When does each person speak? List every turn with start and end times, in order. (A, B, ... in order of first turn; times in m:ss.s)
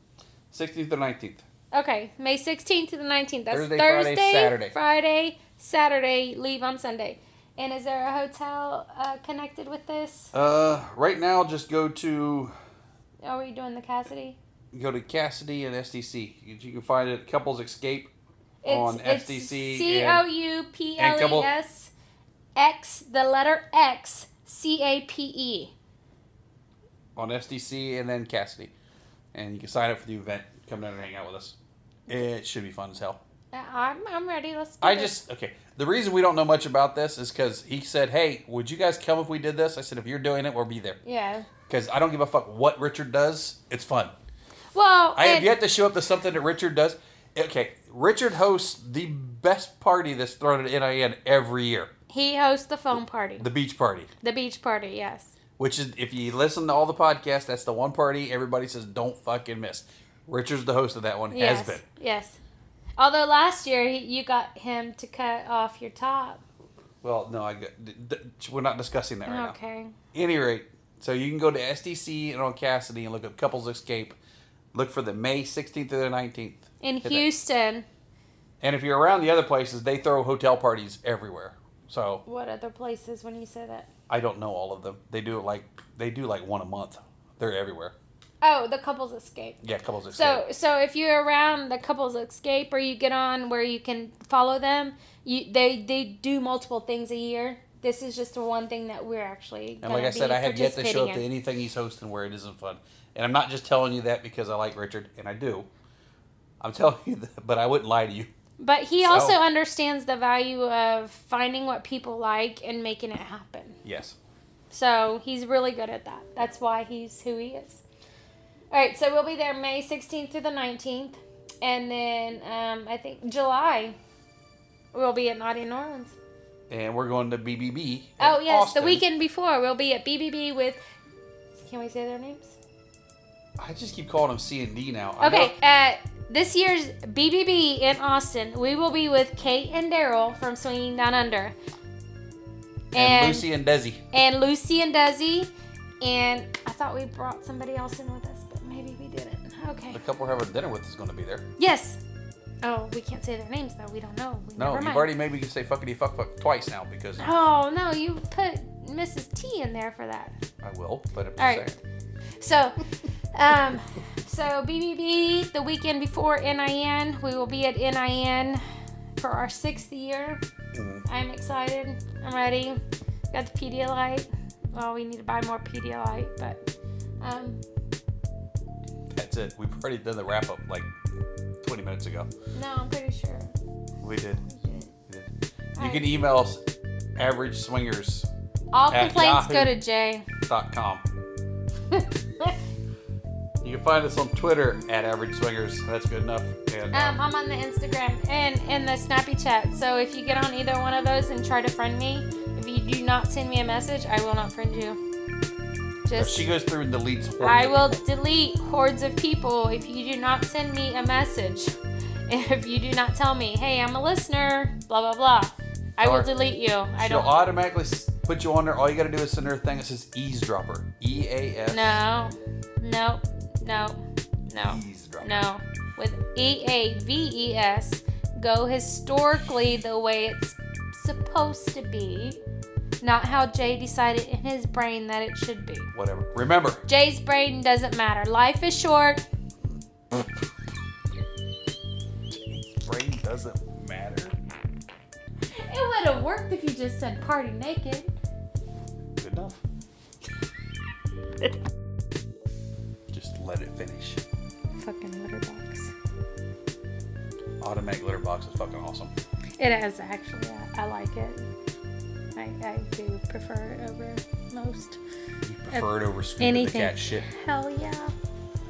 0:00.5-0:01.4 A
0:01.7-0:10.3 B
0:03.5-0:04.8 A
0:10.3-0:12.5 A
0:13.2-0:14.4 B
0:14.7-0:18.1 A
0:18.6-0:21.9 B
0:18.7-0:20.3 A
0:21.0-0:21.5 A
0:22.6-0:25.7 B
0:27.2-0:28.7 A
0:29.3-0:31.6 A
0:32.1-0:33.2 A
0:33.5-0:35.2 B
0:34.8-0:41.0 A
0:41.0-0:41.5 B
0:41.7-0:44.1 A
0:44.7-0:45.5 B
0:45.2-0:51.9 A
0:52.1-0:53.5 B
0:52.9-0:54.1 A
0:54.2-0:55.3 B
0:55.6-1:01.8 A
1:01.3-1:02.4 B
1:03.0-1:06.4 B
1:07.0-1:09.6 A
1:09.3-1:10.0 B
1:10.1-1:14.2 A
1:14.7-1:17.3 A
1:16.8-1:17.9 B
1:18.6-1:22.2 A
1:22.3-1:23.9 B
1:24.1-1:28.0 A
1:28.4-1:41.2 B
1:29.6-1:30.4 A
1:39.8-1:45.7 A
1:46.6-1:48.3 A
1:48.6-1:53.8 B
1:49.0-1:49.4 A
1:53.8-1:54.2 A
1:54.7-1:57.8 B
1:58.7-2:04.0 B
2:04.9-2:06.2 B
2:06.7-2:09.0 A
2:08.2-2:10.8 B
2:11.6-2:12.6 B
2:13.6-2:15.6 A
2:15.2-2:21.5 B
2:22.9-2:23.5 B
2:22.9-2:24.0 A
2:24.1-2:25.5 B
2:26.0-2:30.0 B
2:29.9-2:31.5 A
2:31.6-2:32.0 B
2:32.6-2:35.1 B
2:34.6-2:37.3 A
2:37.2-2:40.4 B
2:40.6-2:41.8 A
2:41.4-2:41.8 B
2:42.4-2:42.8 B
2:43.3-2:48.6 B
2:49.2-2:50.4 B
2:50.7-2:51.0 A
2:51.1-2:52.8 B
2:53.3-2:56.7 B
2:57.2-2:57.6 B
2:59.1-3:00.9 A
3:01.6-3:02.3 A
3:02.6-3:03.5 B
3:04.0-3:04.4 A
3:04.5-3:04.9 B
3:05.1-3:06.6 A
3:05.8-3:06.1 B
3:07.2-3:08.3 A
3:08.7-3:10.3 B
3:08.9-3:09.8 A
3:10.5-3:11.1 A
3:11.9-3:12.6 B
3:13.6-3:17.2 A
3:16.9-3:25.0 B
3:26.1-3:26.5 B
3:26.2-3:28.0 A
3:27.4-3:31.7 B
3:32.3-3:37.3 B
3:36.0-3:36.3 A
3:37.0-3:42.0 A
3:41.7-3:52.4 B
3:44.6-3:45.4 A
3:53.0-3:55.9 B
3:55.9-3:56.8 A
3:56.9-3:59.2 B
4:00.1-4:00.4 A
4:02.3-4:04.4 A
4:05.6-4:08.1 B
4:09.2-4:09.6 A
4:13.1-4:14.2 A
4:14.8-4:15.9 B
4:17.6-4:19.1 A
4:19.6-4:21.5 B
4:22.4-4:25.0 B
4:25.4-4:27.3 A
4:25.7-4:28.1 B